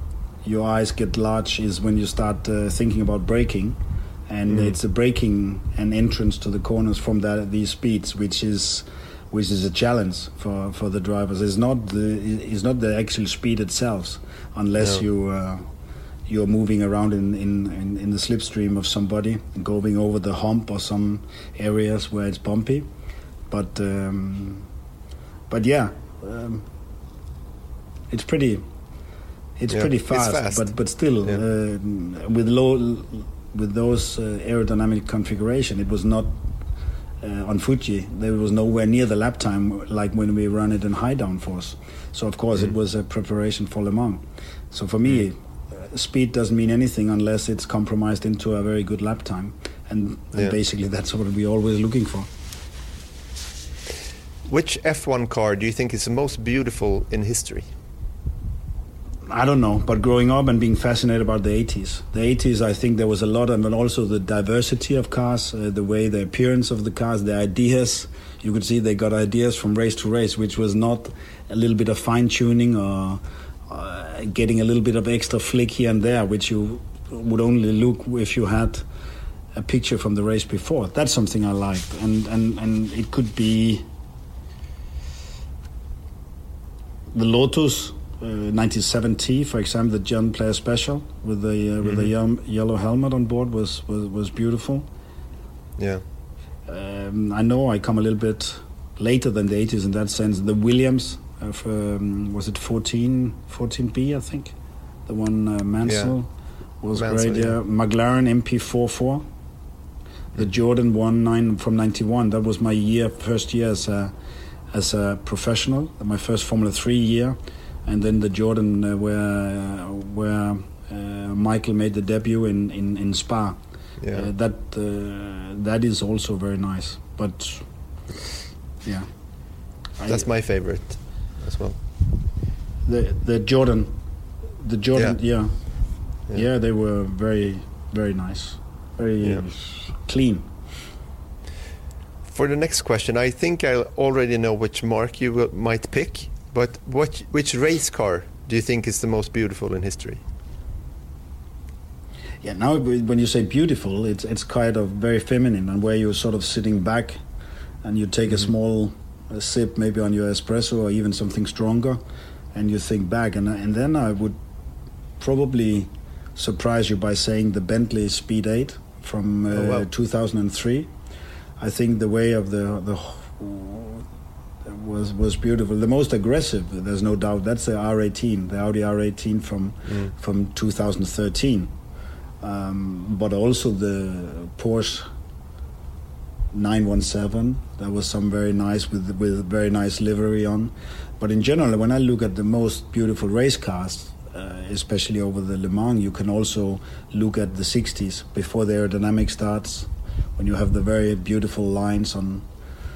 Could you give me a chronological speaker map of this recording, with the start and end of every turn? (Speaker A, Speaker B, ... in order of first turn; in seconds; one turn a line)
Speaker A: 0.4-15.7
Speaker B: 4.5-4.7
Speaker A: 16.3-22.9
Speaker A: 23.5-24.7
Speaker A: 25.5-26.6
Speaker A: 28.1-28.6
Speaker A: 29.6-36.4
Speaker B: 29.7-30.7
Speaker A: 37.2-52.3
Speaker B: 54.5-57.7
Speaker A: 59.3-78.8
Speaker A: 79.5-83.8
Speaker A: 87.1-94.9
Speaker B: 91.8-92.1
Speaker B: 95.8-96.0
Speaker A: 96.7-104.5
Speaker A: 105.0-106.3
Speaker B: 105.8-106.1
Speaker A: 106.8-109.2
Speaker B: 107.0-107.5
Speaker A: 110.3-114.1
Speaker A: 114.7-123.6
Speaker B: 124.0-124.3
Speaker A: 124.1-127.7
Speaker A: 128.8-129.1
Speaker A: 130.0-130.2
Speaker B: 130.1-131.8
Speaker A: 132.8-133.9
Speaker A: 134.6-135.5
Speaker A: 136.3-140.5
Speaker B: 142.3-150.2
Speaker A: 152.4-157.2
Speaker A: 157.8-162.0
Speaker A: 162.5-164.4
Speaker A: 165.2-170.9
Speaker B: 169.5-169.8
Speaker A: 171.6-174.0
Speaker A: 174.7-181.7
Speaker A: 182.4-185.1
Speaker A: 186.5-202.4